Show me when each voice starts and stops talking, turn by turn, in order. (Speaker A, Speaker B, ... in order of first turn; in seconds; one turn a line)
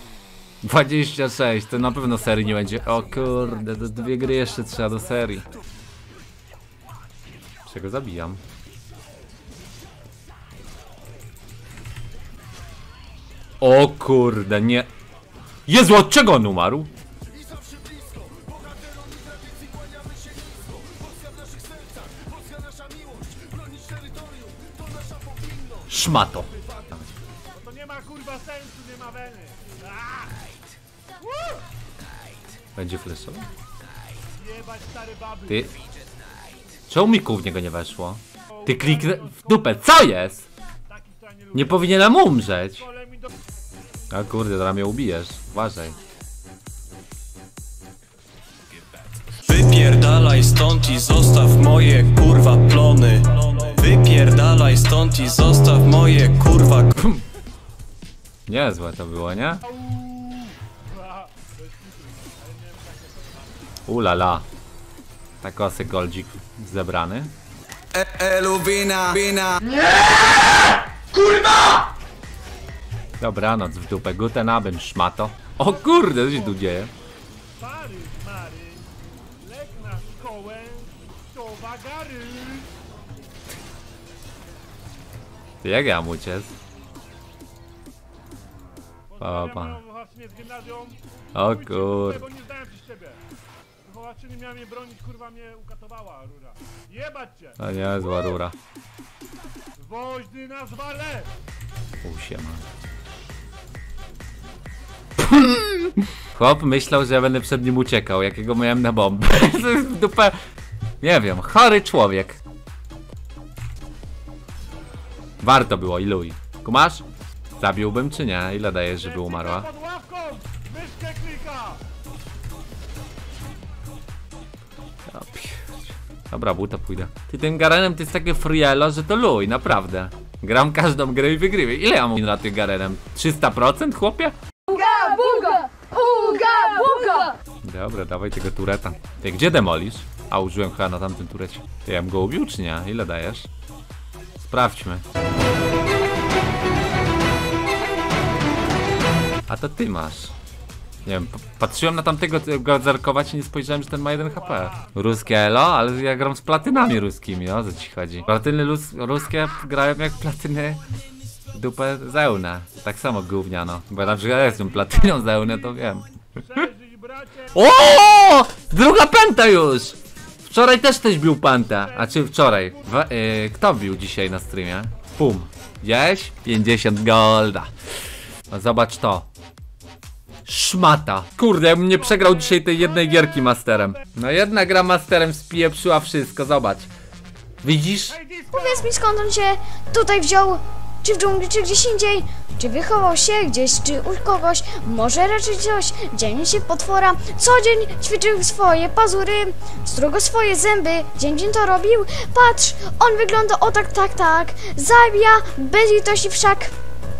Speaker A: 0.6-5.5
Speaker A: 7.7-8.4
Speaker A: 13.6-14.9
Speaker A: 15.7-16.9
Speaker A: 25.9-26.5
Speaker B: 27.5-30.4
Speaker A: 32.7-33.5
Speaker B: 34.5-35.4
Speaker A: 35.5-35.7
Speaker A: 36.9-40.5
Speaker B: 41.0-41.5
Speaker A: 41.5-42.9
Speaker A: 44.1-46.0
Speaker C: 49.4-57.0
Speaker A: 57.0-57.2
Speaker A: 58.5-59.7
Speaker B: 62.1-63.0
Speaker A: 63.9-64.5
Speaker A: 65.4-67.3
Speaker C: 67.9-69.7
Speaker A: 73.2-76.9
Speaker B: 77.6-78.8
Speaker B: 79.4-82.7
Speaker A: 85.6-86.5
Speaker A: 89.2-89.8
Speaker B: 89.3-91.0
Speaker A: 91.3-92.3
Speaker B: 92.0-93.2
Speaker B: 93.8-97.5
Speaker A: 97.6-98.5
Speaker B: 99.8-101.3
Speaker A: 102.0-102.6
Speaker A: 105.2-110.4
Speaker A: 111.0-112.4
Speaker A: 115.4-117.0
Speaker A: 117.6-119.7
Speaker B: 119.6-121.8
Speaker A: 125.1-134.3
Speaker D: 134.7-137.3
Speaker E: 136.3-137.1
Speaker A: 137.6-143.5
Speaker A: 144.4-145.0
Speaker A: 149.5-150.3
Speaker A: 151.0-160.8
Speaker A: 161.5-166.7
Speaker B: 166.6-167.4
Speaker A: 167.5-177.7
Speaker A: 178.5-179.3
Speaker A: 180.4-186.9
Speaker A: 187.6-188.2
Speaker B: 188.2-188.5
Speaker E: 188.5-206.7